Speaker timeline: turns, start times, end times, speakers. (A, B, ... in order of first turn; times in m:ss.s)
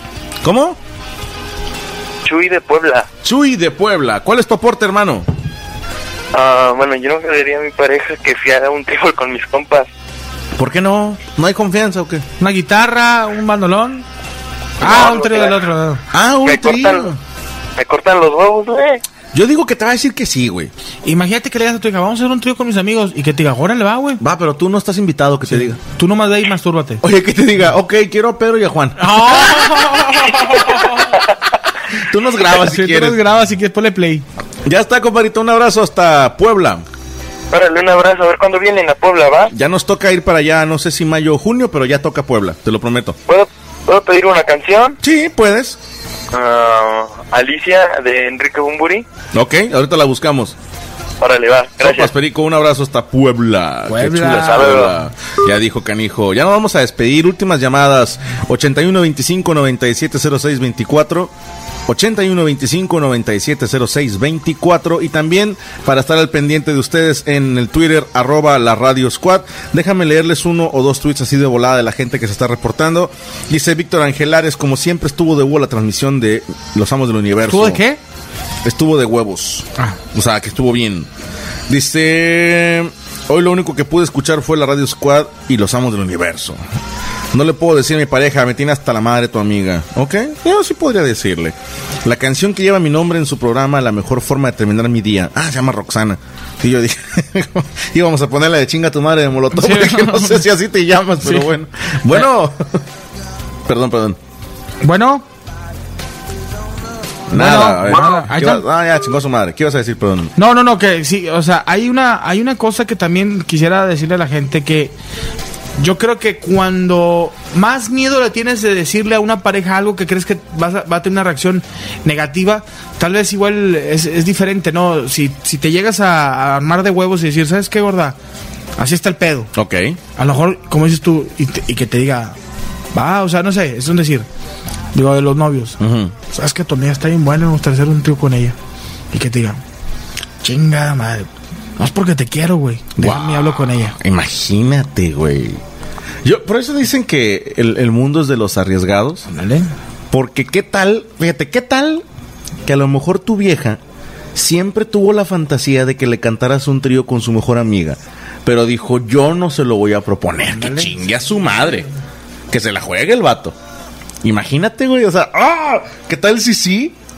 0:00.4-0:00.8 A
0:02.2-0:03.1 B
0:03.2-0:05.3 A
0:06.3-0:09.9 B
0:10.6-0:12.2 A
0:12.4-0:14.0 C
0:14.8-0:16.0 C
0:14.8-0:15.5 B
0:16.1-0:17.2 A
0:16.4-0:17.1 B
0:17.8-0:19.0 B
0:19.3-0:20.7 A
0:21.0-0:24.2 C
0:24.2-0:25.8 A
0:25.5-0:27.0 C
0:27.0-0:29.4 A
0:29.0-0:31.0 C
0:32.0-0:33.2 A
0:32.5-0:34.2 C
0:34.6-0:36.8 A
0:37.5-0:39.5 B
0:39.5-0:43.2 A
0:43.3-0:45.0 B
0:45.0-0:45.8 A
0:46.3-0:49.0 B
0:49.3-0:50.6 A
0:51.2-0:52.1 B
0:51.8-1:01.3 A
0:53.9-0:54.7 C
0:54.4-0:54.9 B
1:01.9-1:17.8 A
1:17.5-1:18.0 C
1:18.6-1:21.1 A
1:21.7-1:26.6 A
1:27.3-1:42.8 A
1:39.6-1:40.4 C
1:43.6-1:44.2 A
1:44.8-1:45.2 C
1:47.3-1:50.3 A
1:47.3-1:48.6 C
1:50.4-1:54.9 C
1:55.8-2:08.2 C
2:08.8-2:09.5 C
2:09.5-2:10.0 A
2:10.2-2:12.4 C
2:12.9-2:14.3 C
2:14.9-2:18.6 C
2:15.8-2:16.1 A
2:19.1-2:19.6 C
2:20.4-2:23.9 C
2:23.0-2:25.6 A
2:26.2-2:29.3 A
2:29.3-2:29.7 C
2:30.1-2:32.0 A
2:32.6-2:33.8 A
2:34.3-2:41.9 A
2:40.5-2:40.9 C
2:42.5-2:43.6 A
2:44.2-2:46.9 A